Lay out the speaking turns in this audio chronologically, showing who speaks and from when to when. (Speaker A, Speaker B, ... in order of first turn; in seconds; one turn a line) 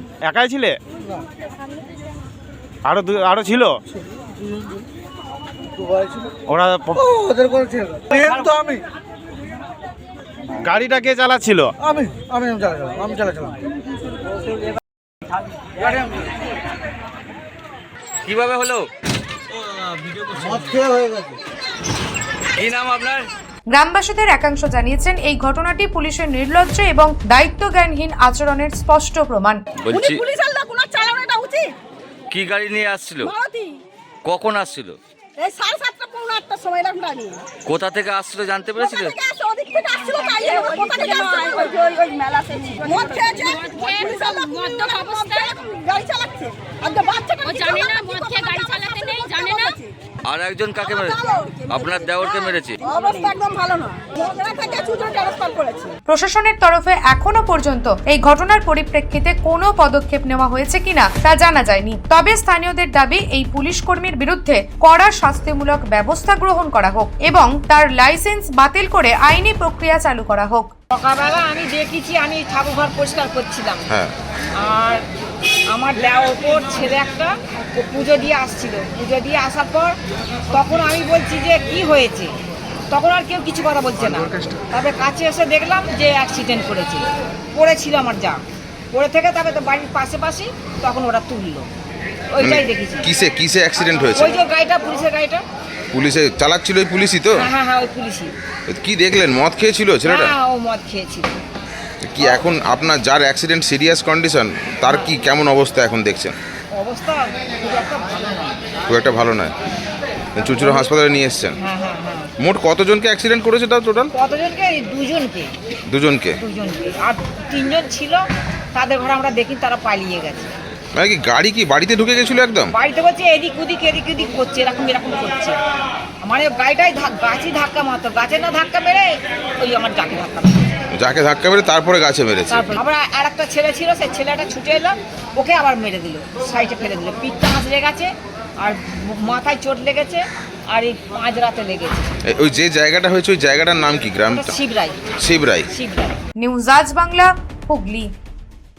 Speaker A: 0.2-0.7
Speaker A: 2.8-3.7
Speaker B: 4.5-4.8
Speaker B: 5.8-6.1
Speaker A: 6.5-7.1
Speaker B: 7.4-8.8
Speaker A: 10.6-11.7
Speaker B: 12.2-13.5
Speaker C: 18.2-18.9
Speaker C: 20.3-20.9
Speaker C: 22.6-23.3
Speaker D: 23.7-29.6
Speaker C: 29.8-30.2
Speaker E: 29.9-31.7
Speaker C: 32.3-33.3
Speaker E: 33.2-33.7
Speaker C: 34.2-35.0
Speaker E: 35.4-37.4
Speaker C: 37.6-39.1
Speaker E: 38.8-49.9
Speaker C: 50.2-52.8
Speaker E: 50.8-55.9
Speaker D: 56.1-70.7
Speaker F: 70.9-73.9
Speaker G: 73.9-74.1
Speaker F: 74.6-75.0
Speaker F: 75.7-80.0
Speaker F: 80.5-82.3
Speaker F: 82.9-87.0
Speaker F: 87.5-88.4
Speaker F: 88.9-91.7
Speaker F: 92.3-93.1
Speaker G: 92.4-94.3
Speaker F: 94.1-95.4
Speaker G: 95.9-97.4
Speaker F: 97.4-98.3
Speaker G: 98.7-100.3
Speaker F: 100.0-101.4
Speaker G: 102.1-106.3
Speaker F: 106.7-108.5
Speaker G: 108.9-109.5
Speaker G: 110.3-111.5
Speaker F: 110.6-110.9
Speaker F: 111.6-112.3
Speaker G: 112.4-114.1
Speaker F: 114.1-115.5
Speaker G: 115.9-116.4
Speaker F: 116.3-118.2
Speaker F: 118.7-120.5
Speaker G: 121.0-122.7
Speaker F: 122.7-125.6
Speaker F: 126.2-129.1
Speaker F: 129.6-130.6
Speaker G: 131.0-132.7
Speaker F: 132.5-142.1
Speaker G: 142.3-144.6
Speaker F: 144.3-145.0
Speaker G: 145.2-145.7
Speaker F: 145.7-146.2
Speaker D: 146.4-148.1